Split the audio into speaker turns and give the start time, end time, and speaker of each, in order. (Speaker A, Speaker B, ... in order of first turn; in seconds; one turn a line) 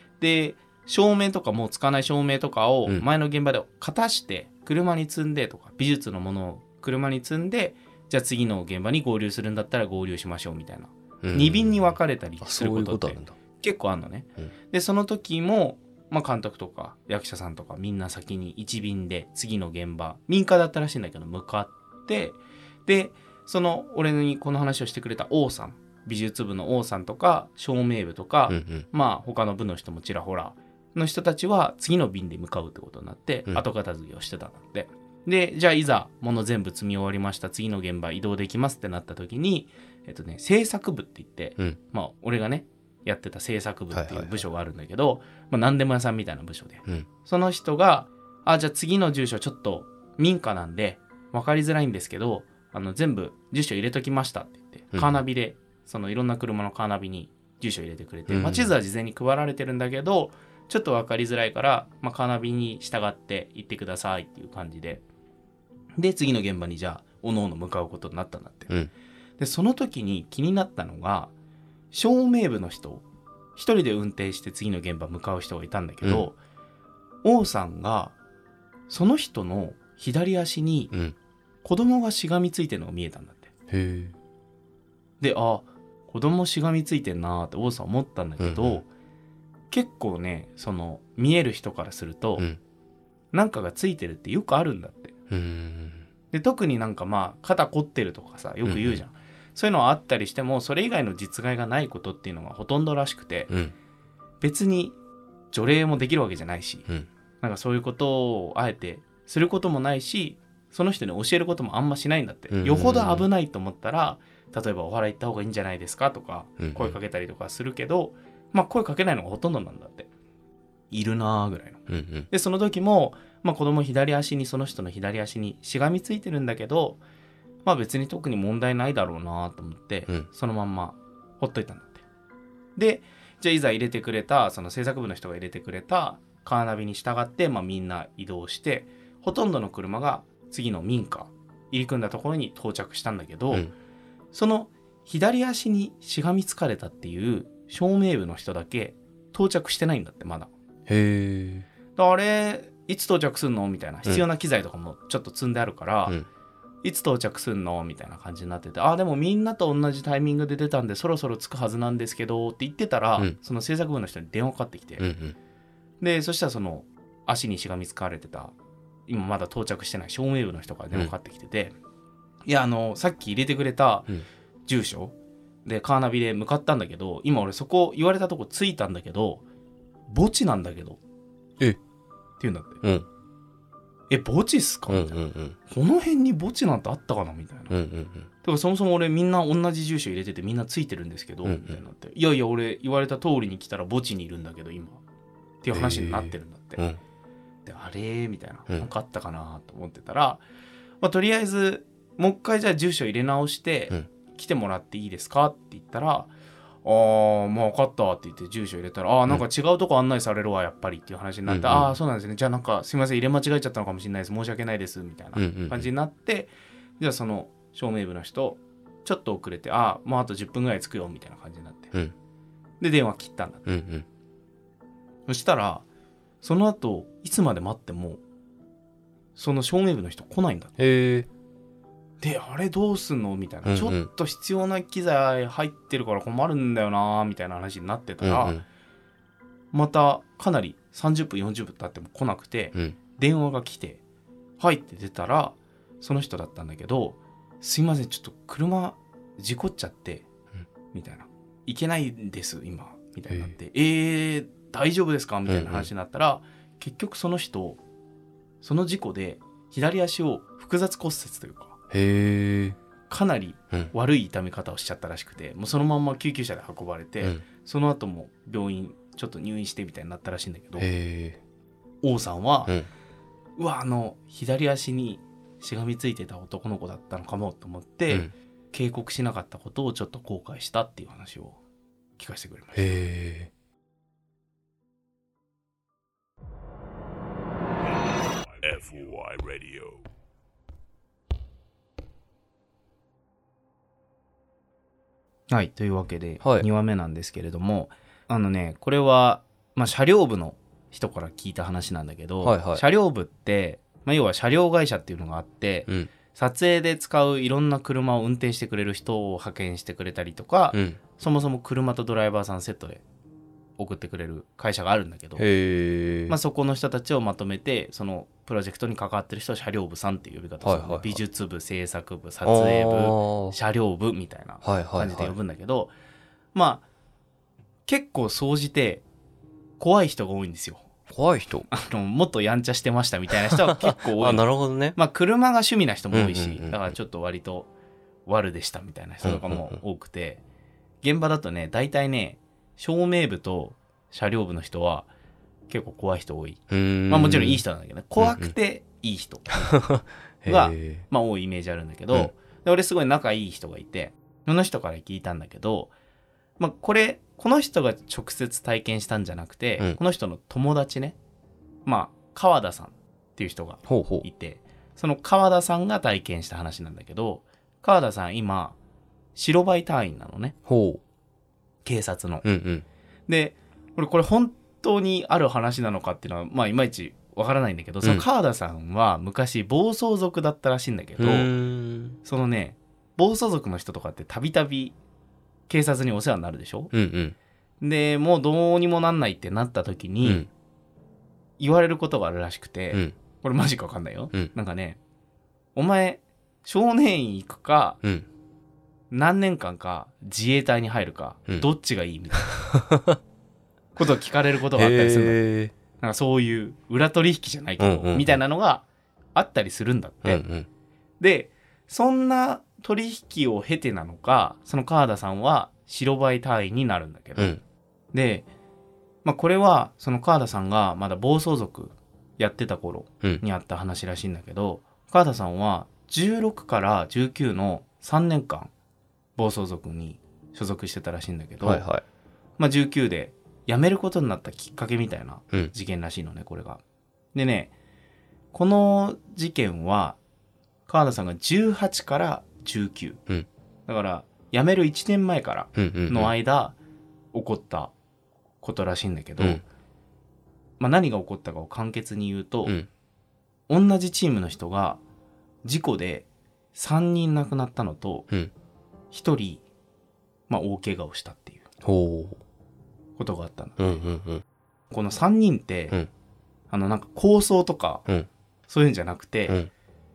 Speaker A: 0.2-65.0
Speaker B: 11.2-13.4
Speaker B: 28.5-28.9
Speaker B: 43.9-44.3
Speaker B: 54.9-55.2
Speaker B: 58.3-58.7
Speaker A: 66.0-68.7
Speaker A: 69.4-71.3
Speaker A: 71.9-73.0
Speaker A: 73.6-76.4
Speaker B: 76.0-76.3
Speaker A: 77.2-78.2
Speaker A: 78.9-80.9
Speaker A: 81.6-83.5
Speaker B: 83.7-84.2
Speaker A: 85.2-88.9
Speaker B: 88.4-88.8
Speaker A: 89.7-92.5
Speaker A: 93.3-95.2
Speaker B: 95.3-96.1
Speaker A: 96.3-103.5
Speaker B: 98.7-99.0
Speaker A: 104.4-105.0
Speaker A: 105.5-106.9
Speaker A: 107.4-120.1
Speaker B: 112.5-113.3
Speaker B: 116.6-117.0
Speaker A: 120.9-127.0
Speaker B: 121.9-122.3
Speaker A: 127.7-132.0
Speaker A: 132.8-143.7
Speaker A: 144.3-150.5
Speaker B: 150.9-151.7
Speaker A: 152.0-156.2
Speaker A: 156.8-165.1
Speaker B: 165.0-165.3
Speaker A: 166.0-168.5
Speaker A: 169.1-171.8
Speaker A: 172.5-174.1
Speaker A: 174.7-179.4
Speaker A: 180.1-181.0
Speaker A: 182.4-182.8
Speaker A: 184.1-187.8
Speaker B: 184.9-185.6
Speaker B: 187.7-188.3
Speaker A: 188.4-195.0
Speaker B: 191.4-191.8
Speaker A: 195.6-196.8
Speaker B: 195.7-197.0
Speaker A: 197.7-200.4
Speaker A: 201.0-206.3
Speaker A: 206.8-221.9
Speaker B: 211.5-211.9
Speaker B: 215.4-215.9
Speaker A: 222.8-223.7
Speaker B: 223.7-224.1
Speaker A: 225.3-225.8
Speaker A: 226.4-228.2
Speaker A: 229.4-230.7
Speaker B: 230.8-231.3
Speaker A: 232.2-238.6
Speaker B: 233.7-234.1
Speaker B: 238.2-238.6
Speaker A: 239.7-244.0
Speaker A: 244.6-250.3
Speaker A: 250.9-257.8
Speaker B: 255.5-255.9
Speaker A: 258.6-261.8
Speaker B: 261.9-262.8
Speaker A: 263.1-270.9
Speaker B: 270.8-271.4
Speaker A: 272.0-272.8
Speaker A: 273.6-281.6
Speaker A: 282.2-283.1
Speaker B: 282.8-283.5
Speaker C: 288.1-290.1
Speaker A: 295.5-313.0
Speaker B: 296.4-296.7
Speaker B: 302.4-302.8
Speaker B: 310.7-311.0
Speaker A: 313.8-315.4
Speaker B: 315.4-316.4
Speaker A: 316.3-325.9
Speaker B: 320.6-321.2
Speaker B: 322.4-323.6
Speaker B: 324.6-325.4
Speaker A: 326.5-326.8
Speaker A: 327.9-329.1
Speaker A: 329.8-330.9
Speaker B: 331.1-331.7
Speaker A: 331.7-337.7
Speaker B: 333.5-335.0
Speaker B: 336.1-336.9
Speaker A: 338.3-340.4
Speaker B: 339.2-339.8
Speaker A: 341.0-345.1
Speaker A: 345.7-349.9
Speaker B: 346.7-347.6
Speaker B: 348.2-348.5
Speaker B: 349.7-351.1
Speaker A: 350.5-355.9
Speaker A: 356.6-361.2
Speaker A: 361.9-368.8
Speaker B: 363.9-364.3
Speaker A: 369.4-370.6
Speaker B: 370.7-371.0
Speaker A: 371.8-372.4
Speaker B: 372.4-372.9
Speaker A: 373.3-381.5
Speaker B: 381.2-382.2
Speaker A: 382.2-385.0
Speaker A: 385.7-386.9
Speaker B: 386.9-387.4
Speaker A: 387.8-390.5
Speaker B: 390.2-390.5
Speaker A: 391.6-395.0
Speaker A: 395.8-398.0
Speaker A: 399.1-402.6
Speaker B: 402.4-403.2
Speaker A: 404.0-405.4
Speaker B: 404.8-405.7
Speaker A: 406.0-410.4
Speaker B: 407.8-408.4
Speaker B: 410.2-410.7
Speaker A: 411.2-417.6
Speaker B: 417.4-417.6
Speaker A: 418.1-418.5
Speaker A: 419.2-428.7
Speaker A: 429.4-431.9
Speaker B: 431.6-432.0
Speaker A: 432.6-436.8
Speaker A: 437.3-437.7
Speaker A: 438.5-440.2
Speaker A: 440.9-443.2
Speaker A: 443.9-446.8
Speaker B: 445.8-446.3
Speaker A: 447.3-447.9
Speaker A: 448.6-449.6
Speaker A: 450.8-452.8
Speaker A: 453.7-455.0
Speaker A: 455.6-458.3
Speaker A: 459.1-459.6
Speaker A: 460.5-461.7
Speaker B: 461.8-462.4
Speaker A: 463.2-464.0
Speaker B: 463.8-464.4
Speaker A: 464.9-466.0
Speaker A: 466.7-468.1
Speaker A: 468.7-469.6